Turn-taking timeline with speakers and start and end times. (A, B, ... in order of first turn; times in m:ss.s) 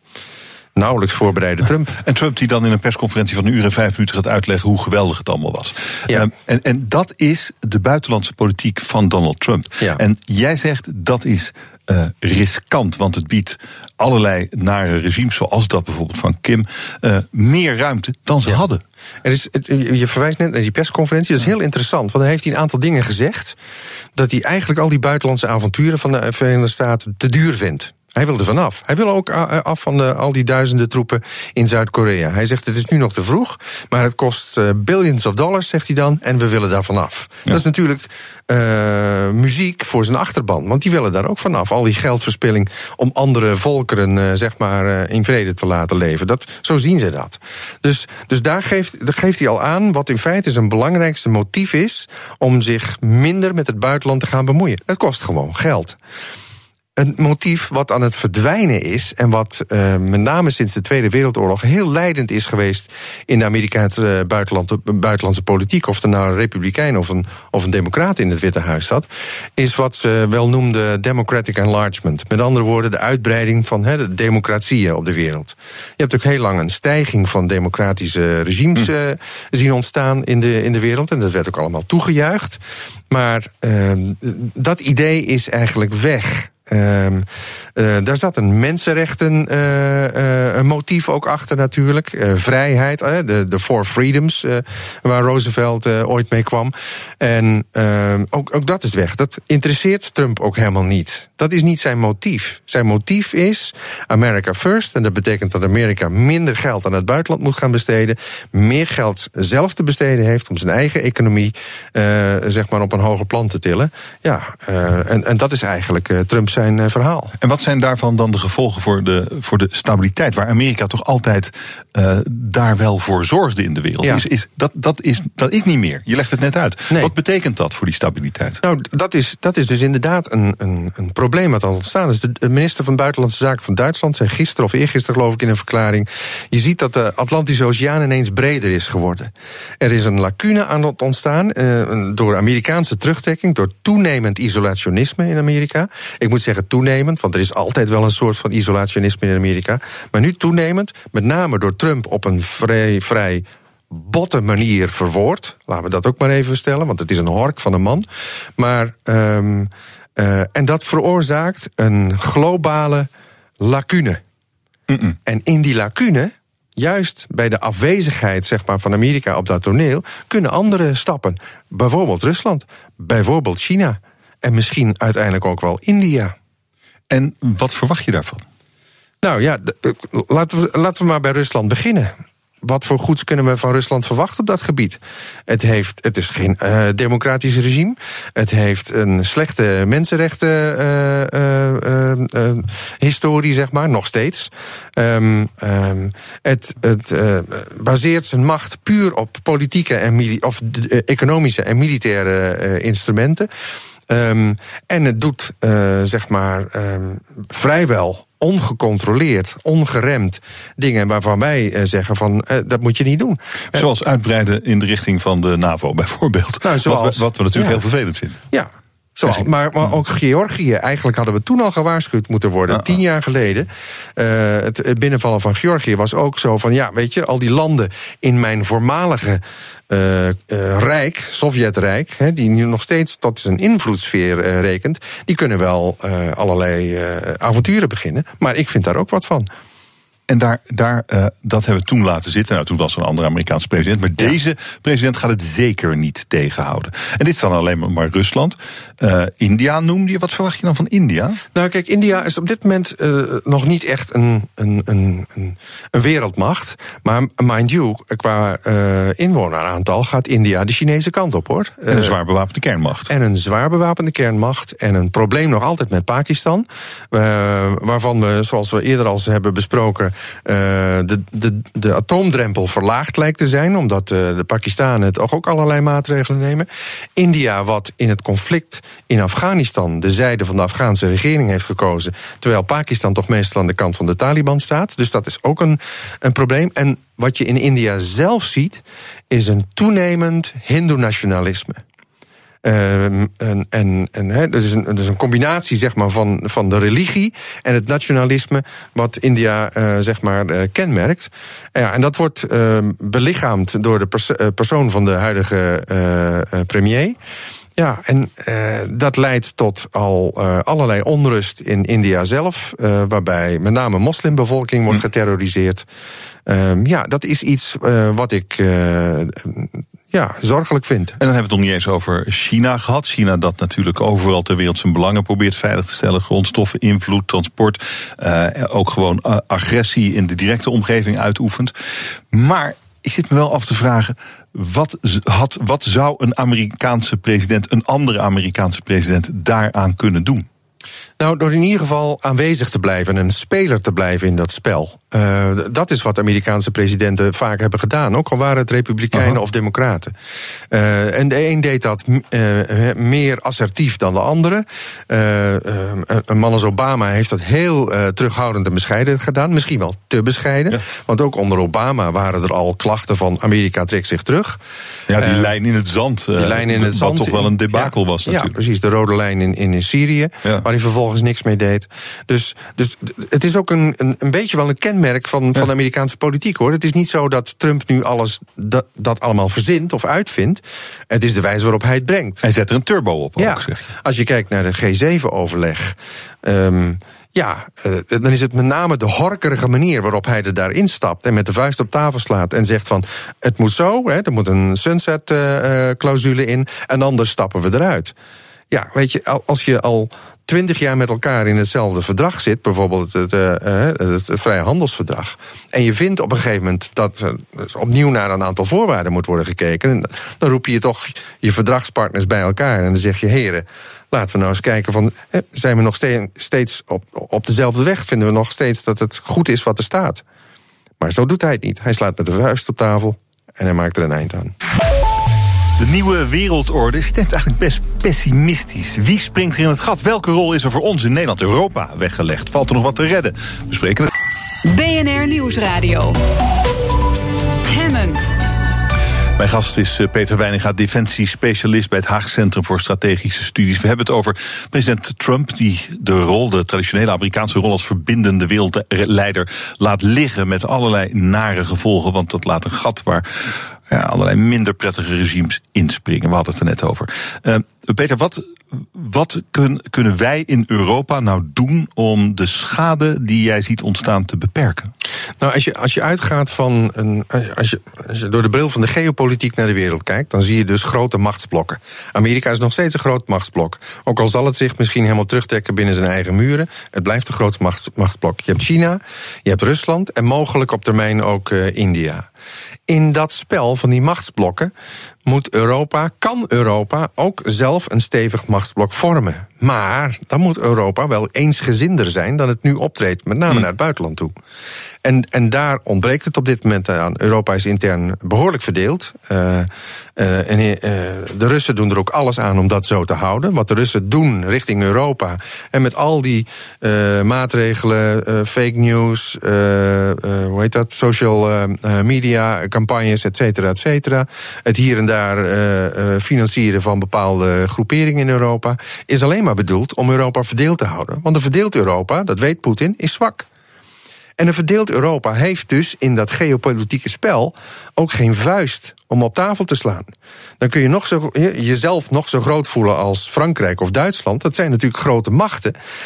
0:00.8-0:02.0 A
0:02.0-0:18.8 B
0:19.2-0:23.6 A
0:24.2-0:56.0 A
0:57.0-1:57.4 A
1:57.4-2:08.6 B
2:08.6-2:38.1 A
2:38.6-2:43.1 A
2:43.6-2:44.2 A
2:44.9-2:45.2 B
2:45.2-2:56.3 A
2:57.1-2:58.4 B
2:59.2-3:02.1 A
3:02.6-3:23.5 A
3:24.1-3:33.8 A
3:33.7-3:38.4 B
3:36.6-3:37.8 A
3:38.5-3:59.5 A
3:39.2-3:39.9 B
4:00.3-4:11.4 B
4:11.6-4:22.1 A
4:21.9-4:23.1 B
4:23.1-4:51.8 A
4:52.6-5:07.2 A
5:07.8-5:15.8 A
5:16.5-5:21.2 A
5:21.2-5:31.7 B
5:32.3-5:40.4 B
5:41.2-5:50.1 A
5:49.1-5:49.4 B
5:50.7-6:04.6 A
6:05.1-6:08.5 B
6:05.2-6:05.5 A
6:06.4-6:22.4 A
6:22.4-6:23.8 B
6:23.4-6:38.1 A
6:38.7-7:00.2 A
7:01.0-7:04.5 A
7:05.8-7:14.1 B
7:14.6-7:16.2 C
7:17.6-7:18.2 C
7:19.4-7:44.9 B
7:45.4-8:02.3 A
8:02.9-8:04.7 A
8:05.3-8:14.4 A
8:15.0-8:43.5 A
8:44.4-8:55.8 A